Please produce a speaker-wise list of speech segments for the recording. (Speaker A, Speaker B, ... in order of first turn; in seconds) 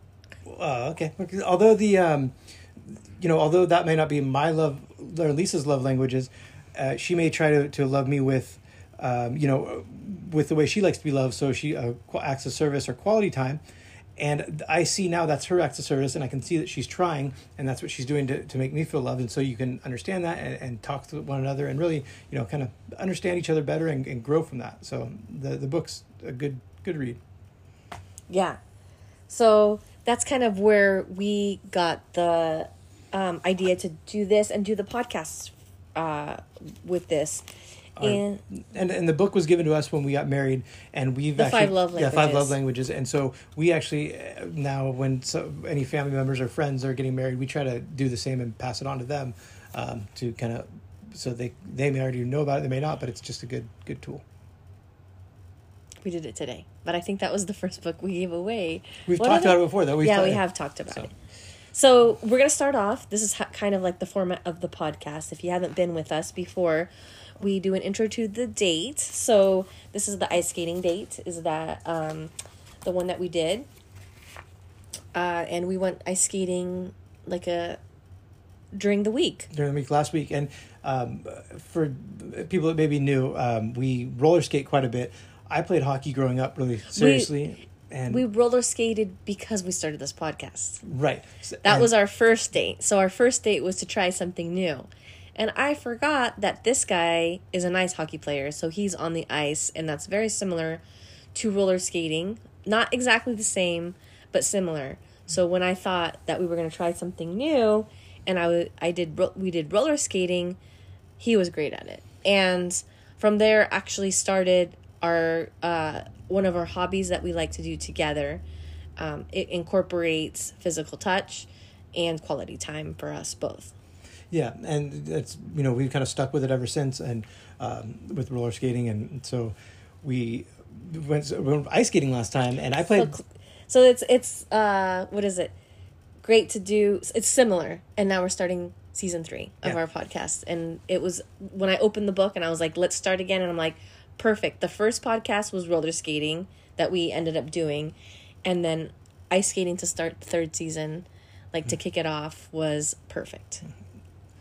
Speaker A: 0.5-13.6, 14.2-27.2, 38.0-54.2, 59.1-61.1, 79.5-88.2, 90.8-91.9, 124.3-133.2
Speaker B: 28.3-28.6, 29.3-37.5, 38.0-38.4, 41.4-42.6, 56.0-61.1, 61.7-72.3, 72.8-73.7, 75.2-77.8, 78.7-79.5, 86.9-87.3, 88.1-90.8, 91.6-100.8, 101.3-110.6, 111.2-118.4, 119.0-123.7, 132.9-135.5, 136.2-153.7